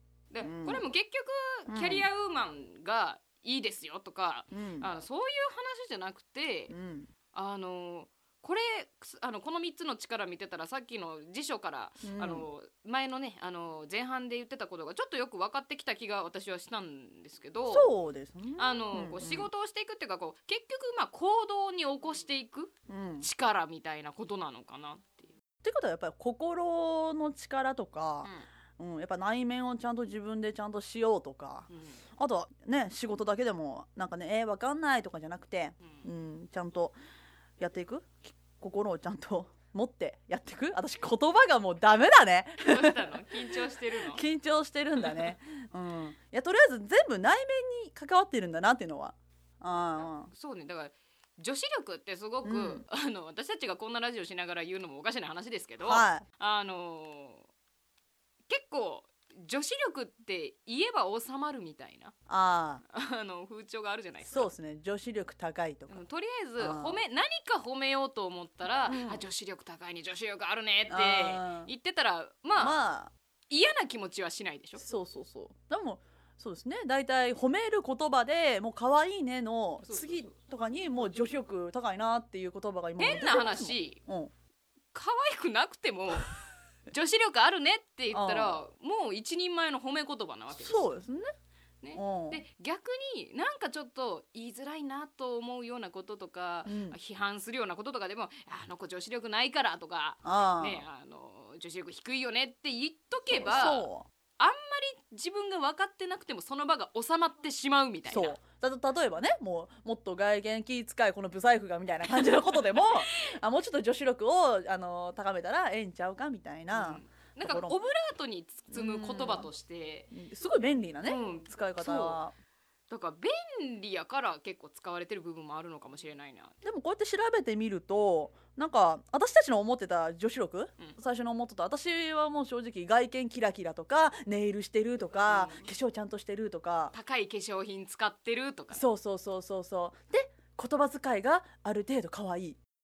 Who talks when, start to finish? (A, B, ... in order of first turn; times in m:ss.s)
0:00.3-0:06.7 A
0:00.4-0:00.8 B
0:01.7-0:02.1 B
0:04.5-0:04.9 B
0:06.7-0:07.1 B
0:07.3-0:17.9 A
0:12.0-0:12.5 B
0:17.7-0:19.5 B
0:18.6-0:25.3 A
0:22.9-0:23.3 B
0:25.6-0:37.0 B
0:31.7-0:32.0 A
0:37.6-0:43.0 B
0:42.6-0:44.2 A
0:44.1-0:50.3 B
0:50.3-0:57.5 A
0:52.4-0:52.8 B
0:55.8-0:56.2 B
0:58.5-1:02.1 A
1:02.3-1:02.8 B
1:02.9-1:04.5 A
1:04.3-1:06.0 B
1:05.9-1:12.8 A
1:06.6-1:07.0 B
1:08.9-1:09.2 B
1:10.9-1:11.7 B
1:12.6-1:13.1 B
1:13.5-1:14.8 A
1:14.8-1:24.3 B
1:19.8-1:20.3 A
1:23.0-1:24.0 A
1:24.9-1:26.3 A
1:26.9-1:31.0 A
1:28.1-1:28.6 B
1:30.5-1:31.3 B
1:31.8-1:43.9 A
1:32.0-1:32.4 B
1:36.7-1:37.0 B
1:40.2-1:40.8 B
1:43.3-1:44.1 B
1:44.4-1:48.4 A
1:48.1-1:57.8 B
1:56.7-2:00.1 A
1:58.7-1:59.5 B
2:00.1-2:02.3 B
2:01.0-2:02.2 A
2:02.9-2:06.5 A
2:06.6-2:16.9 B
2:15.3-2:15.6 A
2:16.9-2:18.8 A
2:18.7-2:22.6 B